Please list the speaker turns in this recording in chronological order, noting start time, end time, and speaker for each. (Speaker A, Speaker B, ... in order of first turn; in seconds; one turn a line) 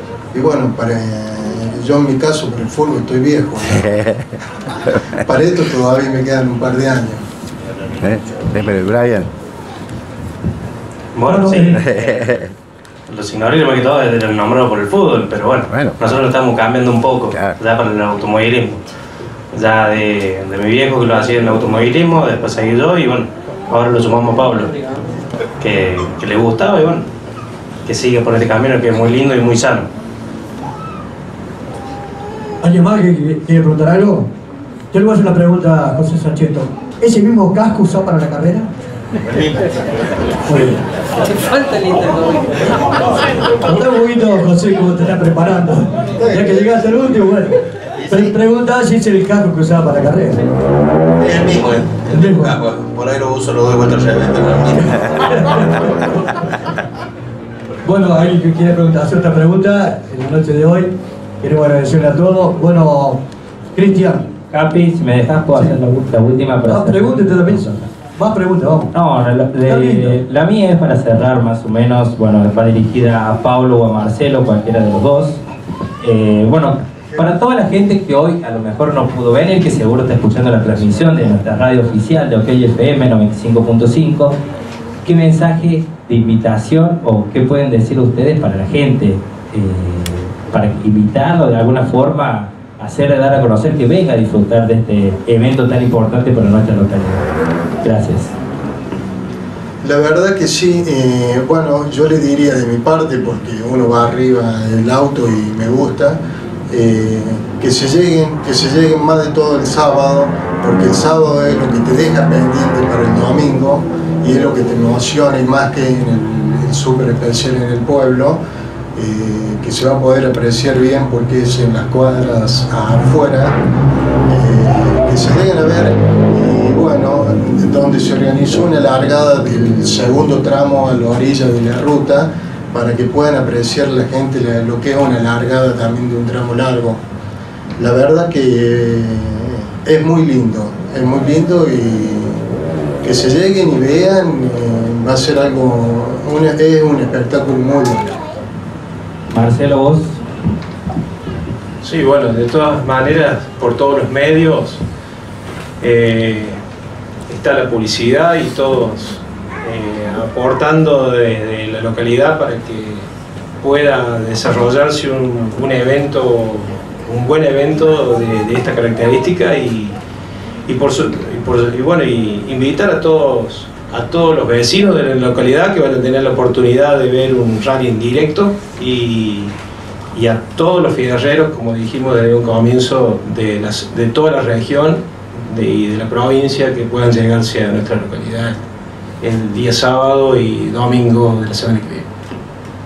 Speaker A: 0.3-3.8
Speaker A: 5.2-7.2
Speaker B: 8.0-9.3
Speaker C: 11.1-12.3
Speaker D: 11.2-11.8
Speaker B: 11.5-12.5
Speaker C: 13.1-18.8
Speaker B: 15.7-16.0
Speaker B: 17.3-17.6
Speaker C: 19.5-24.7
Speaker C: 25.6-27.1
Speaker C: 27.9-29.9
Speaker D: 32.6-34.3
Speaker D: 34.9-38.7
Speaker E: 39.3-39.7
Speaker D: 40.5-40.8
Speaker D: 43.6-47.6
Speaker E: 48.0-48.3
Speaker D: 48.1-50.4
Speaker E: 51.2-55.8
Speaker D: 52.1-52.5
Speaker D: 55.3-56.1
Speaker D: 57.8-63.2
Speaker D: 63.7-64.3
Speaker F: 64.5-67.9
Speaker D: 66.7-68.9
Speaker F: 68.9-75.4
Speaker D: 69.7-70.2
Speaker F: 76.0-84.3
Speaker F: 85.0-97.2
Speaker F: 97.8-98.3
Speaker A: 99.8-106.2
Speaker A: 106.7-118.4
Speaker A: 118.9-123.6
Speaker A: 124.3-137.0
Speaker A: 137.8-142.4
Speaker A: 143.0-148.1
Speaker F: 149.3-150.2
Speaker G: 151.8-154.8
Speaker G: 155.8-156.6
Speaker G: 157.3-163.1
Speaker G: 163.6-169.9
Speaker G: 170.7-179.5
Speaker G: 180.1-188.6
Speaker G: 189.2-192.1